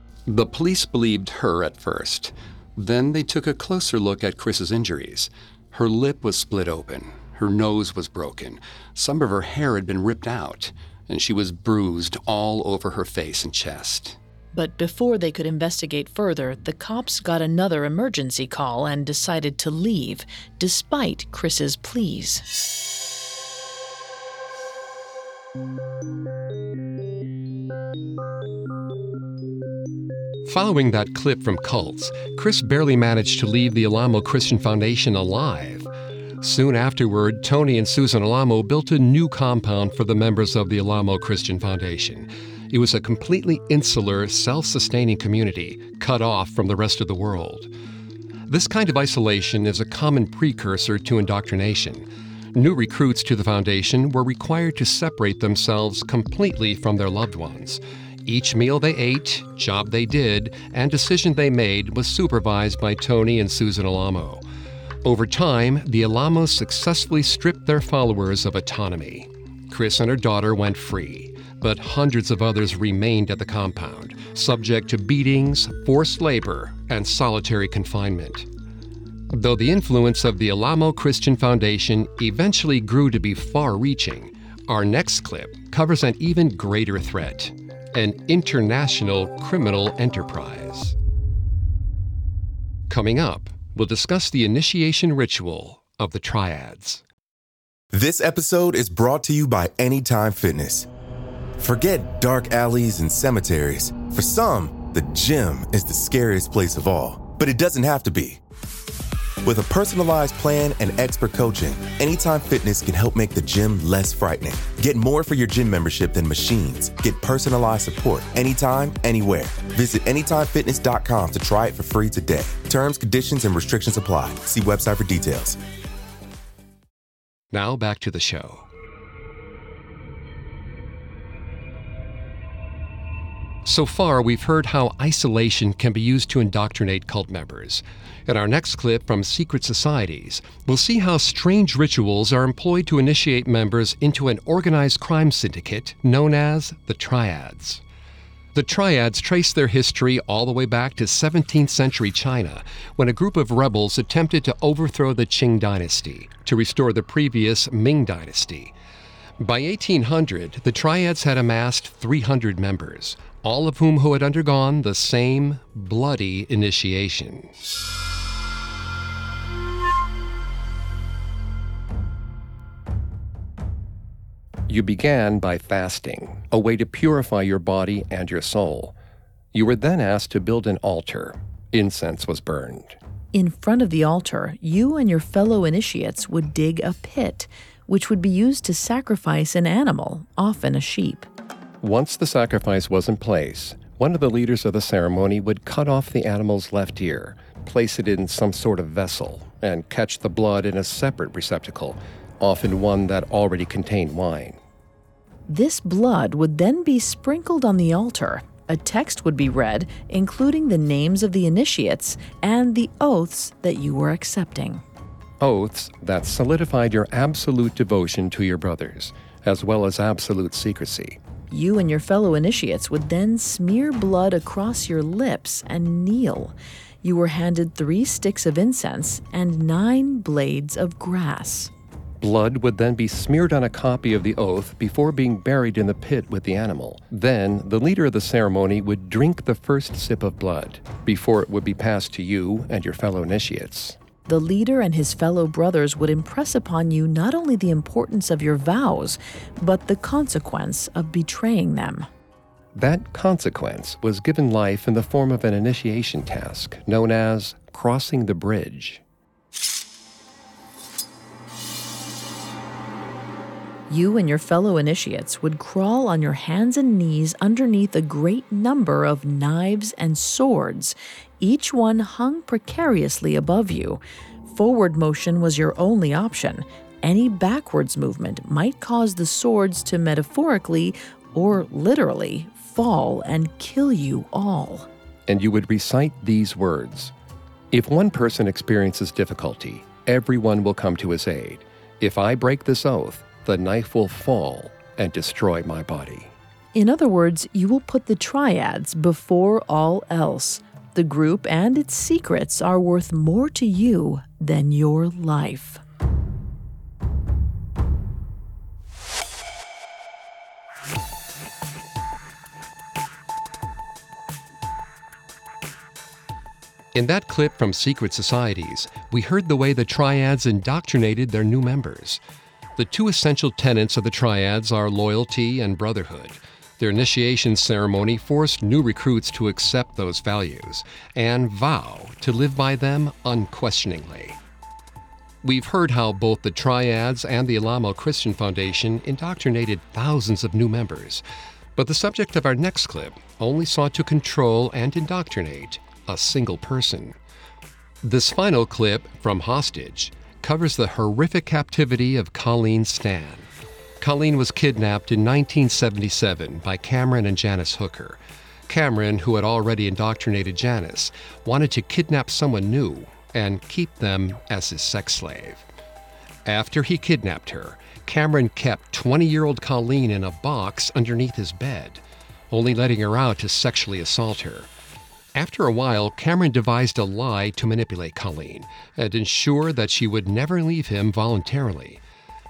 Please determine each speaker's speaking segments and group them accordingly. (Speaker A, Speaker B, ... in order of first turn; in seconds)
Speaker A: 0.3-14.2, 30.4-35.9, 36.4-47.7, 48.5-64.4, 65.0-78.5, 79.3-91.0, 92.9-97.0, 127.5-128.7, 133.6-147.8, 148.5-158.7, 159.4-167.5, 174.7-178.9, 179.5-183.0, 191.8-204.6, 215.4-221.2, 232.2-244.0, 252.7-259.0, 285.3-287.1, 287.7-296.3, 316.9-322.2, 322.8-334.4, 335.4-341.2, 341.8-347.1, 348.0-353.5, 354.0-365.6, 366.4-374.7, 375.3-382.0
Speaker B: 14.5-22.4, 183.3-191.3, 205.5-214.8, 221.5-231.7, 244.3-252.1, 263.9-284.9, 296.7-305.8
Speaker C: 97.9-100.9, 101.6-108.4, 109.4-125.6